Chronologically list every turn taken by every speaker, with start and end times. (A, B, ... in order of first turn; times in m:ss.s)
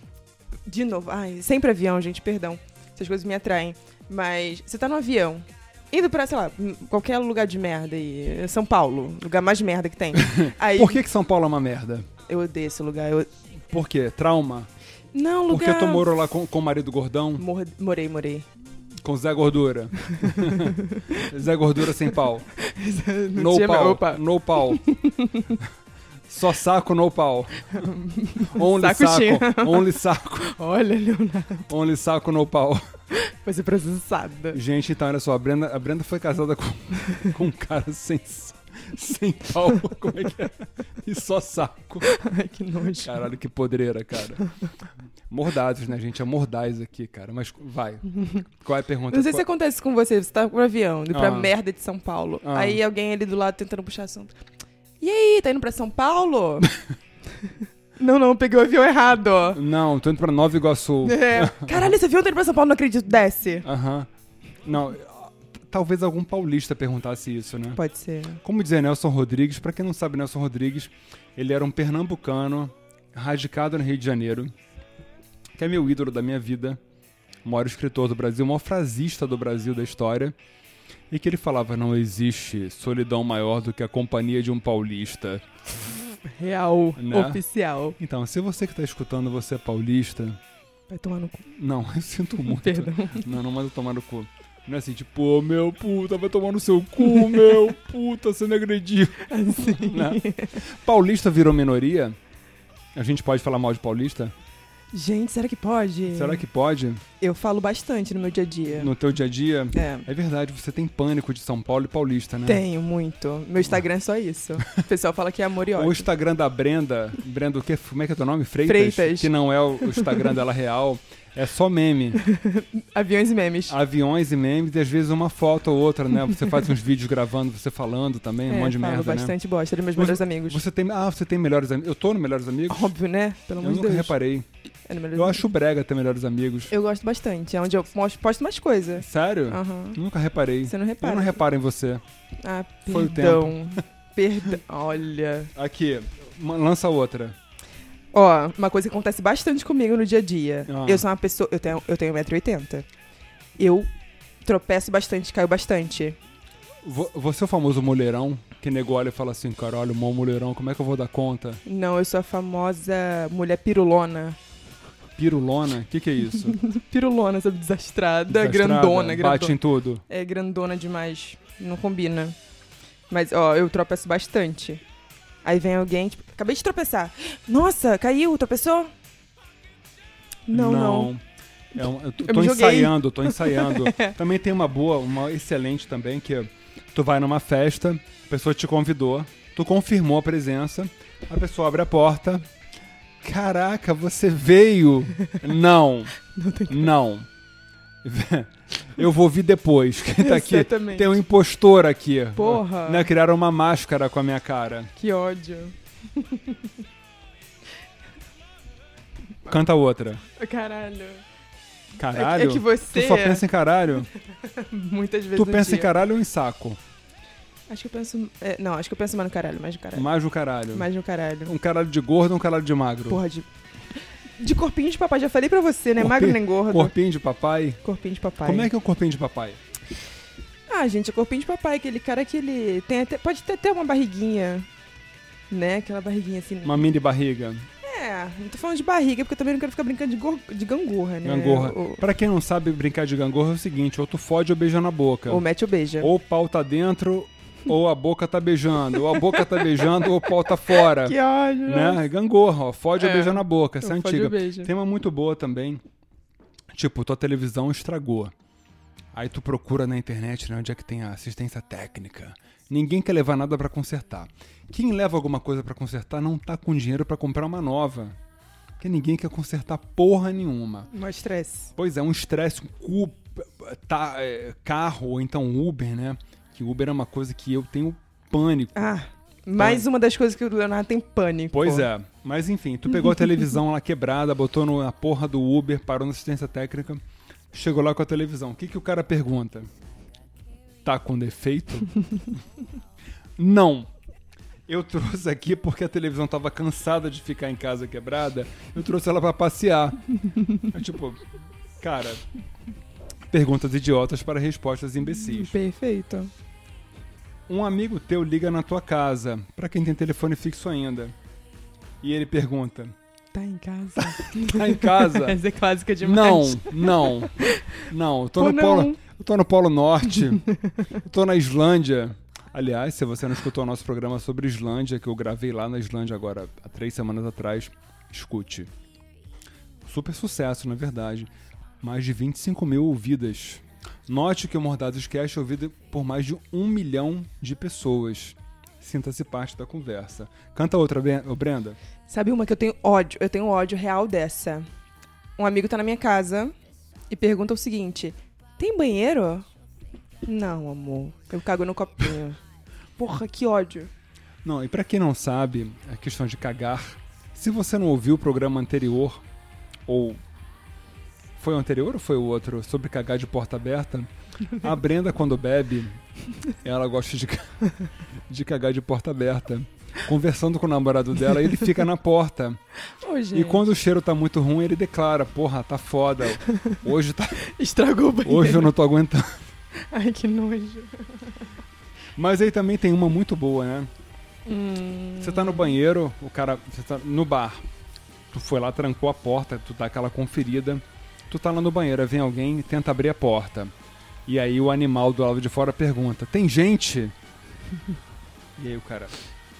0:00.6-0:11.0 A
0:10.1-0:12.1 B
0:12.2-0:13.3 A
0:13.7-0:14.7 B
0:15.1-0:16.1 A
0:15.5-0:17.4 B
0:17.4-0:18.5 A
0:19.0-0:22.5 B
0:20.2-0:21.3 A
0:22.6-0:25.6 A
0:23.3-0:24.8 B
0:26.3-0:30.5 B
0:27.7-0:31.7 A
0:31.7-0:32.8 B
0:33.1-0:34.6 A
0:34.5-0:42.1 B
0:42.0-0:43.2 A
0:43.0-0:44.4 B
0:45.3-0:49.4 B
0:49.1-0:54.4 A
0:51.1-0:51.5 B
0:52.4-0:52.8 B
0:55.0-0:56.7 A
0:58.0-0:59.6 A
0:59.5-1:02.0 B
1:01.0-1:03.7 A
1:03.6-1:04.1 B
1:04.6-1:07.8 B
1:07.7-1:08.4 A
1:08.4-1:14.5 B
1:15.6-1:16.8 B
1:17.4-1:20.3 B
1:21.1-1:25.4 B
1:26.2-1:28.0 A
1:27.0-1:27.4 B
1:28.0-1:30.4 B
1:30.9-1:31.4 A
1:31.5-1:42.2 B
1:32.5-1:33.4 A
1:39.2-1:40.6 A
1:42.9-1:44.3 B
1:44.9-1:46.4 A
1:46.1-1:47.0 B
1:47.2-1:48.9 A
1:48.8-1:52.6 B
1:49.7-1:50.1 A
1:52.4-1:56.1 A
1:55.7-2:02.2 B
1:58.6-2:00.2 A
2:02.2-2:03.8 A
2:03.7-2:09.3 B
2:08.5-2:10.6 A
2:09.9-2:13.0 B
2:12.7-2:14.2 A
2:13.6-2:14.4 B
2:14.9-2:15.4 A
2:15.1-2:16.7 B
2:16.7-2:20.0 A
2:19.0-2:22.0 B
2:20.6-2:21.4 A
2:22.4-2:25.5 A
2:22.9-2:23.8 B
2:25.5-2:27.4 B
2:28.1-2:32.9 A
2:30.7-2:31.1 B
2:33.6-2:33.9 A
2:34.4-2:36.2 A
2:36.8-2:41.6 B
2:41.6-2:44.4 A
2:45.2-2:46.6 B
2:46.4-2:52.4 A
2:48.3-2:50.0 B
2:53.1-2:54.8 A
2:55.4-2:58.9 A
3:00.5-3:01.1 A
3:00.5-3:01.2 B
3:01.7-3:12.4 B
3:01.8-3:04.2 A
3:13.2-3:16.2 B
3:16.2-3:16.9 A
3:16.7-3:17.3 B
3:18.0-3:24.9 B
3:20.2-3:21.2 A
3:22.3-3:23.1 A
3:24.9-3:26.7 A
3:29.4-3:30.2 B
3:30.4-3:31.2 A
3:32.0-3:34.1 B
3:32.1-3:33.4 A
3:34.4-3:35.9 A
3:35.3-3:36.8 B
3:37.7-3:40.1 A
3:39.9-3:40.9 B
3:40.7-3:41.6 A
3:41.4-3:43.2 B
3:43.1-3:43.5 A
3:44.4-3:46.9 A
3:46.0-3:47.8 B
3:47.8-3:48.7 A
3:48.4-3:49.6 B
3:50.7-3:54.7 A
3:55.5-3:56.9 A
3:56.6-3:57.6 B
3:57.8-4:02.0 A
4:01.2-4:05.4 B
4:05.3-4:06.1 A
4:06.0-4:15.8 B
4:08.9-4:12.0 A
4:13.0-4:14.7 A
4:16.7-4:18.3 B
4:19.1-4:28.1 B
4:28.8-4:30.9 B
4:30.9-4:31.7 A
4:31.8-4:38.9 B
4:38.7-4:41.9 A
4:39.6-4:39.9 B
4:41.5-4:47.0 B
4:47.5-4:49.7 B
4:50.8-4:52.2 B
4:53.4-4:53.9 B
4:54.7-5:01.2 B
5:01.8-5:02.2 B
5:03.3-5:05.6 B
5:05.0-5:06.3 A
5:07.5-5:11.1 B
5:12.0-5:12.9 B
5:13.3-5:17.8 A
5:14.0-5:15.4 B
5:16.0-5:20.4 B
5:18.4-5:19.0 A
5:20.3-5:20.9 A
5:20.9-5:28.7 B
5:29.8-5:31.3 B
5:31.8-5:41.8 B
5:42.1-5:44.7 A
5:45.4-5:46.5 A
5:47.1-5:49.5 A
5:50.2-5:52.4 A
5:53.0-5:53.9 A
5:54.4-5:59.2 B
5:59.9-6:00.2 B
6:01.4-6:06.0 B
6:06.6-6:07.7 B
6:08.3-6:12.6 B
6:13.0-6:13.6 A
6:13.3-6:17.4 B
6:17.4-6:18.7 A
6:18.2-6:19.4 B
6:19.9-6:21.5 A
6:22.2-6:23.9 B
6:24.4-6:25.7 A
6:25.2-6:27.6 B
6:28.3-6:33.7 B
6:34.2-6:37.1 B
6:38.6-6:39.1 B